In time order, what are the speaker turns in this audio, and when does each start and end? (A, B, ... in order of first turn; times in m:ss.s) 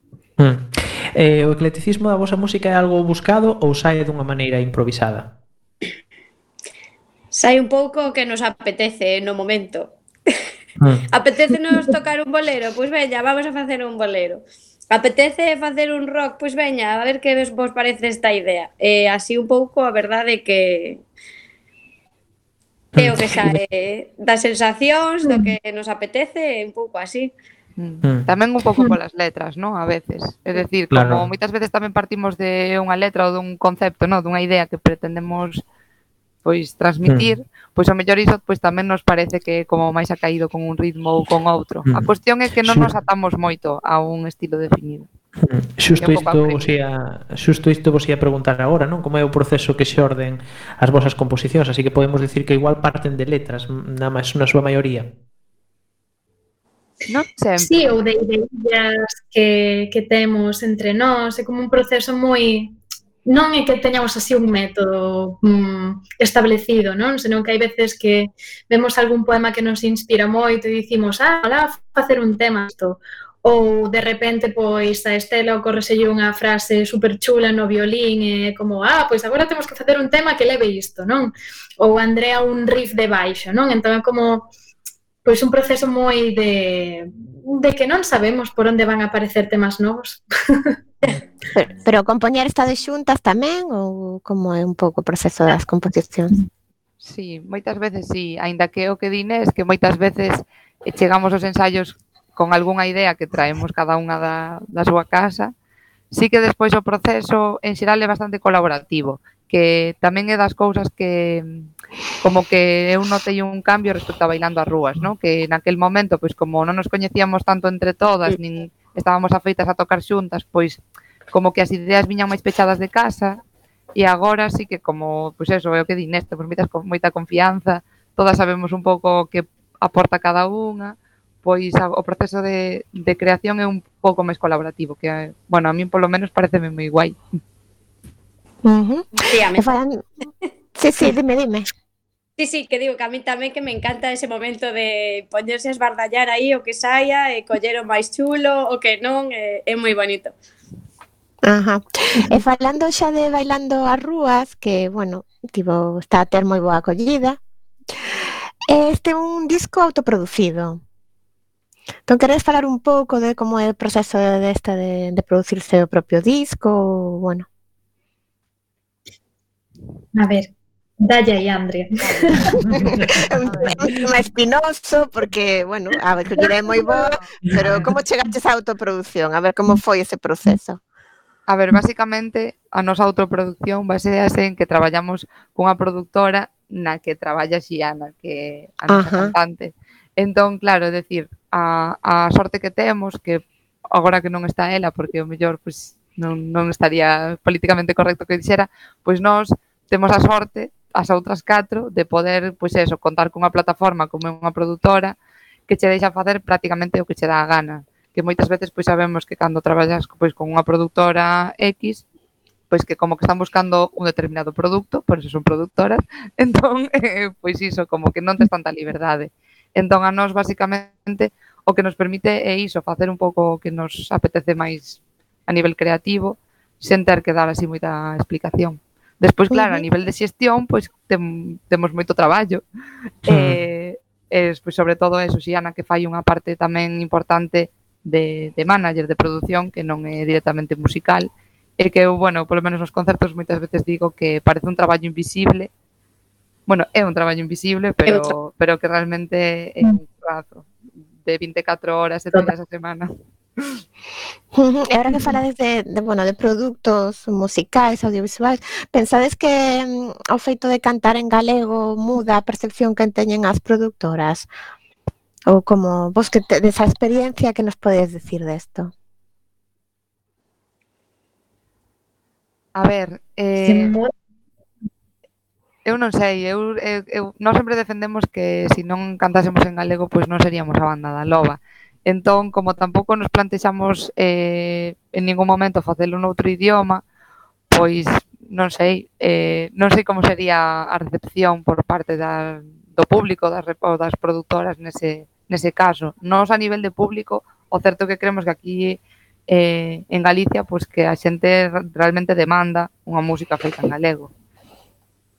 0:00.4-0:05.3 A
0:07.3-0:10.0 B
0:10.8-0:11.0 A
0:11.1-0:21.0 B
0:22.9-0:23.6 A
0:23.0-0:27.3 B
0:25.2-0:25.5 C
0:27.8-0:35.6 D
0:30.9-0:31.2 A
0:36.4-0:45.1 D
0:37.0-0:37.3 A
0:42.6-0:42.9 A
0:45.4-0:55.1 A
0:46.0-0:46.7 D
0:57.1-0:57.8 D
0:57.6-1:24.5 C
1:25.2-1:30.8 C
1:31.6-1:36.4 E
1:37.0-1:45.5 D
1:46.1-1:51.7 D
1:52.2-2:00.8 D
2:01.3-2:03.4 D
2:03.9-2:17.2 D
2:18.6-2:20.0 E
2:19.2-2:19.7 B
2:20.8-2:21.7 E
2:22.4-2:30.3 B
2:31.4-2:37.4 E
2:38.7-2:40.8 E
2:42.1-2:47.4 E
2:50.1-2:50.5 C
2:51.0-2:52.7 C
2:52.0-2:54.1 D
2:52.7-2:53.0 A
2:52.9-3:00.8 E
2:56.4-2:56.9 C
3:01.5-3:25.2 D
3:08.9-3:09.3 E
3:25.7-3:32.0 D
3:32.7-3:52.6 D
3:49.5-3:49.8 E
3:53.3-3:53.6 A
3:53.3-4:05.7 D
4:06.7-4:10.7 D
4:08.0-4:08.3 B
4:11.2-4:13.1 D
4:14.5-4:24.5 E
4:25.5-4:28.9 E
4:32.7-4:34.0 D
4:33.6-4:34.1 C
4:35.8-4:47.0 D
4:47.7-5:04.3 D